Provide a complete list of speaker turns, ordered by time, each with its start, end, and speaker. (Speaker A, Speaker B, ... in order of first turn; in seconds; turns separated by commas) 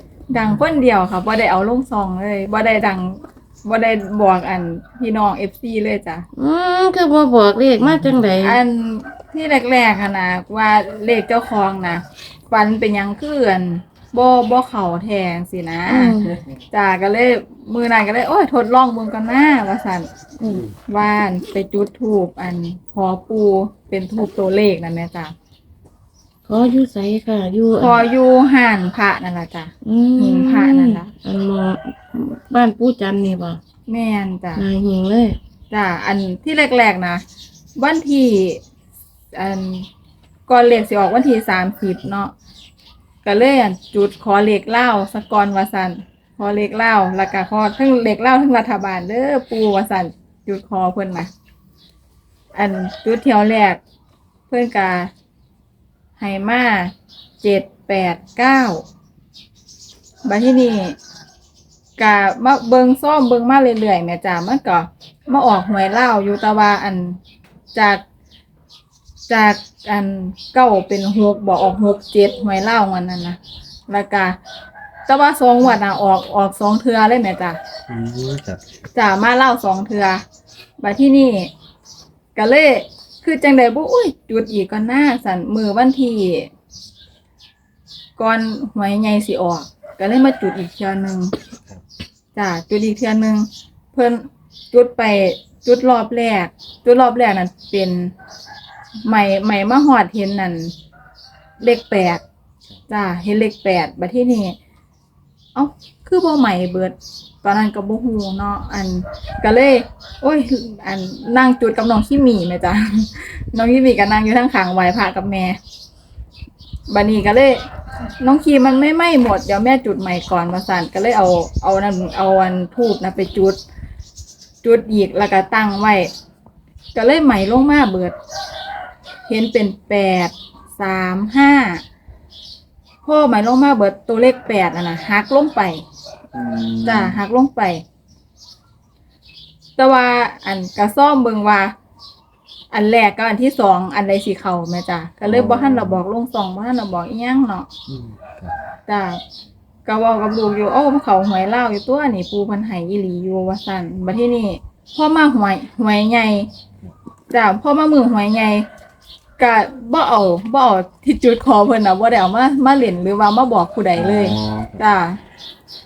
Speaker A: 0.3-6.2, Speaker B: 6.4-8.6, Speaker A: 8.4-16.2, Speaker B: 15.9-16.3, Speaker A: 16.7-20.1, Speaker B: 20.4-20.7, Speaker A: 20.9-25.3, Speaker B: 26.5-28.0, Speaker A: 27.8-31.1, Speaker B: 29.8-33.6, Speaker A: 33.9-34.7, Speaker B: 34.6-35.4, Speaker A: 35.7-37.2, Speaker A: 37.8-38.6, Speaker A: 39.3-39.9, Speaker A: 40.5-42.3, Speaker A: 43.2-51.3, Speaker A: 52.5-53.8, Speaker A: 54.5-55.1, Speaker A: 56.2-58.8, Speaker A: 60.2-61.0, Speaker A: 62.0-67.2, Speaker A: 67.7-68.0, Speaker A: 69.3-73.4, Speaker A: 73.9-74.4, Speaker A: 75.1-77.6, Speaker C: 77.9-78.6, Speaker A: 78.9-80.2, Speaker A: 80.8-81.5, Speaker A: 82.3-86.5, Speaker A: 88.2-91.3, Speaker A: 92.3-98.1, Speaker A: 99.1-100.7, Speaker A: 101.6-102.2, Speaker A: 102.9-104.6, Speaker A: 105.5-115.6, Speaker A: 116.9-117.6, Speaker A: 118.2-123.6, Speaker A: 124.6-126.1, Speaker A: 126.9-128.2, Speaker A: 129.3-131.8, Speaker A: 133.0-135.8, Speaker C: 136.3-137.2, Speaker A: 136.8-137.8, Speaker A: 139.8-141.7, Speaker A: 142.7-147.7, Speaker C: 145.2-146.0, Speaker C: 147.9-148.6, Speaker A: 148.9-149.2, Speaker A: 149.9-156.5, Speaker A: 157.3-158.7, Speaker A: 159.4-165.2, Speaker C: 164.0-164.8